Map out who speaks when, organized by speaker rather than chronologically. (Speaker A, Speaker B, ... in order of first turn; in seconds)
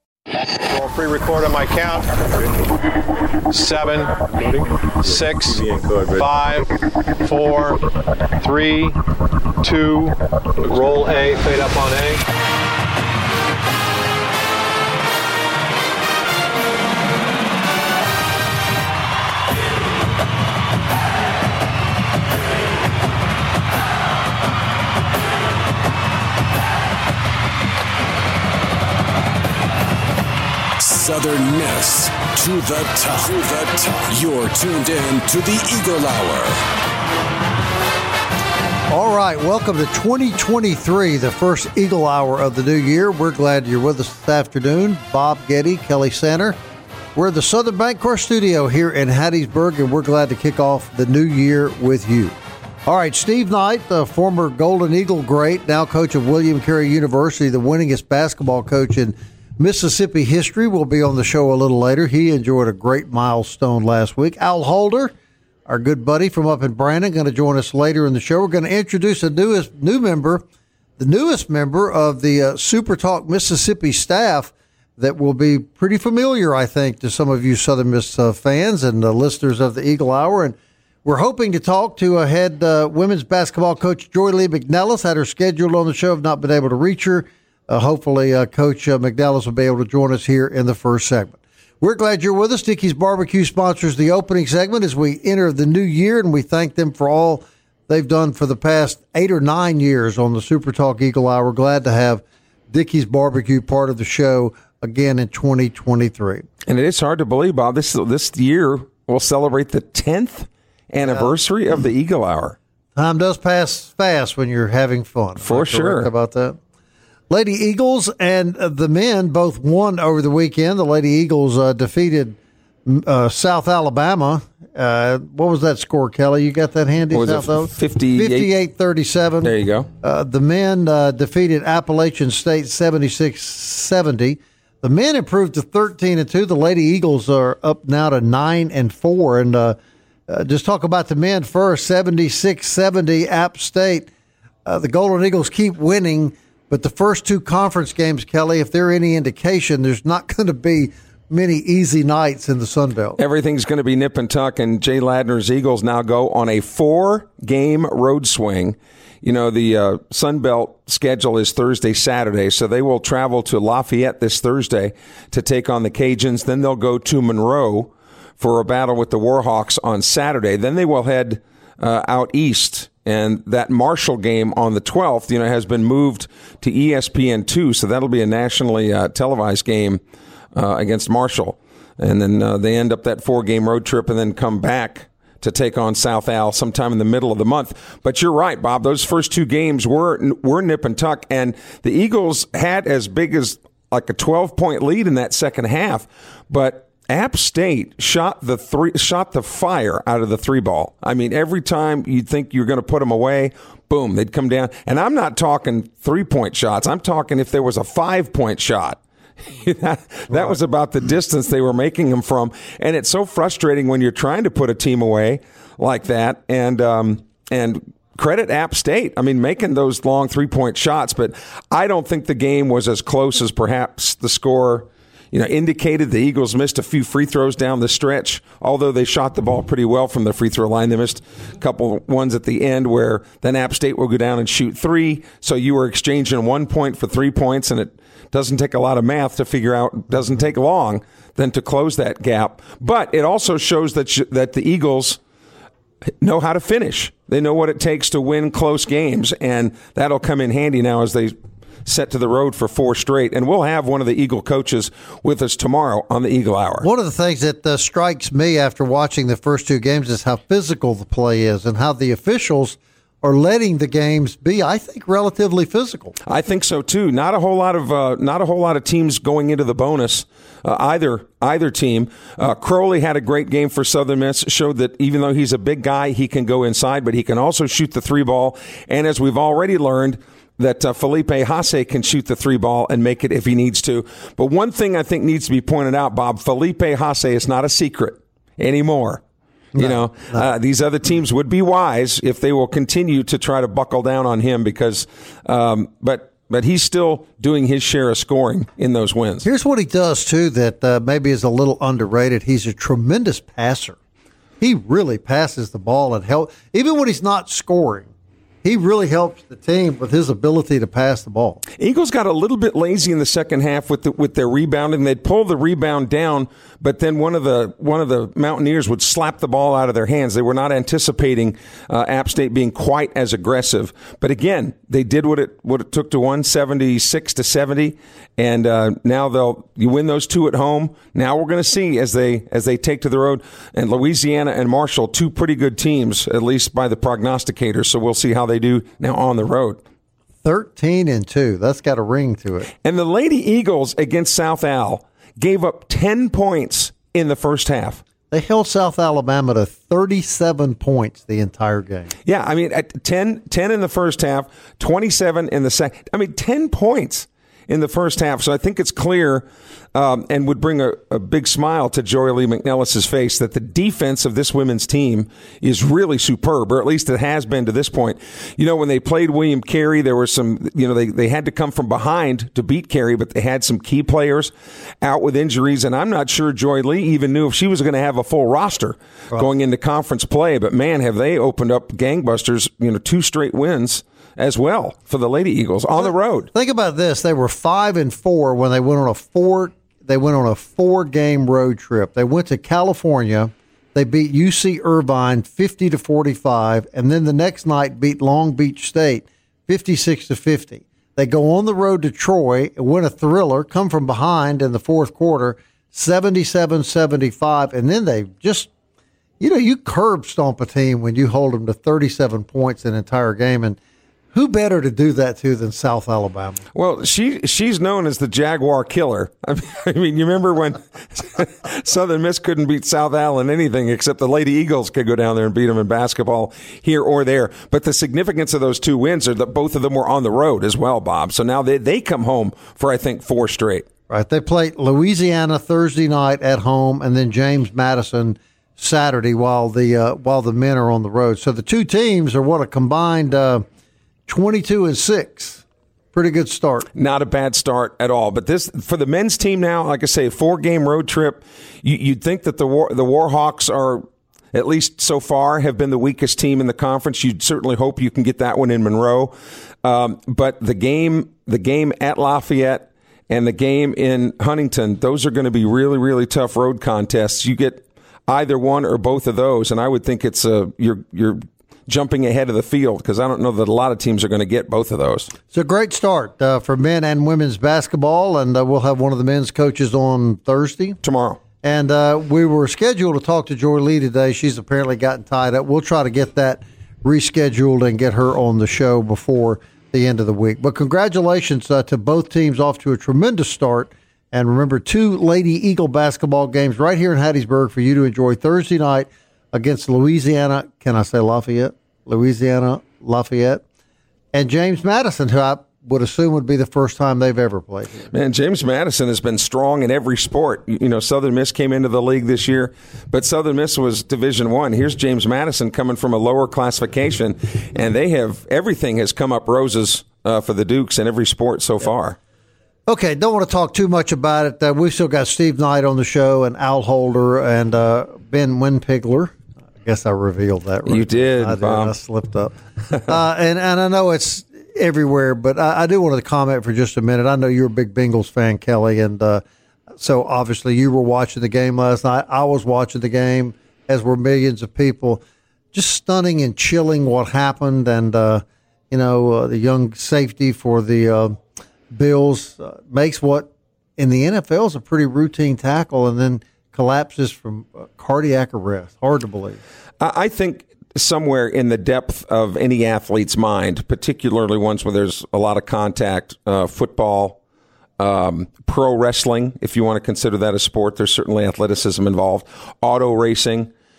Speaker A: 0.7-2.5, 3.5-7.8, 8.4-9.0, 9.6-12.2
Speaker B: 30.8-36.6
Speaker C: 38.9-46.6, 47.1-65.1, 65.7-70.4, 71.0-106.4, 112.9-116.6, 117.3-139.8, 140.3-144.1, 144.7-153.2, 256.8-266.1, 289.8-290.5, 299.4-304.0, 304.6-308.1, 308.6-311.6, 340.4-342.7, 348.3-352.1, 386.0-408.7, 409.4-413.8, 414.3-416.6, 434.1-443.6, 444.3-446.9, 475.5-481.0, 481.6-503.6, 504.3-508.1, 522.9-532.5, 533.1-539.4, 540.0-551.4, 551.9-559.6
Speaker D: 106.7-112.6, 115.4-116.1, 127.1-128.5, 129.4-129.9, 153.2-180.0, 180.6-245.2, 246.2-256.9, 266.2-289.2, 289.8-299.5, 311.8-339.8, 342.8-348.0, 352.2-386.5, 416.8-433.9, 446.9-475.3, 481.0-481.4, 508.1-522.2, 530.9-531.9, 560.0-567.4, 568.0-573.7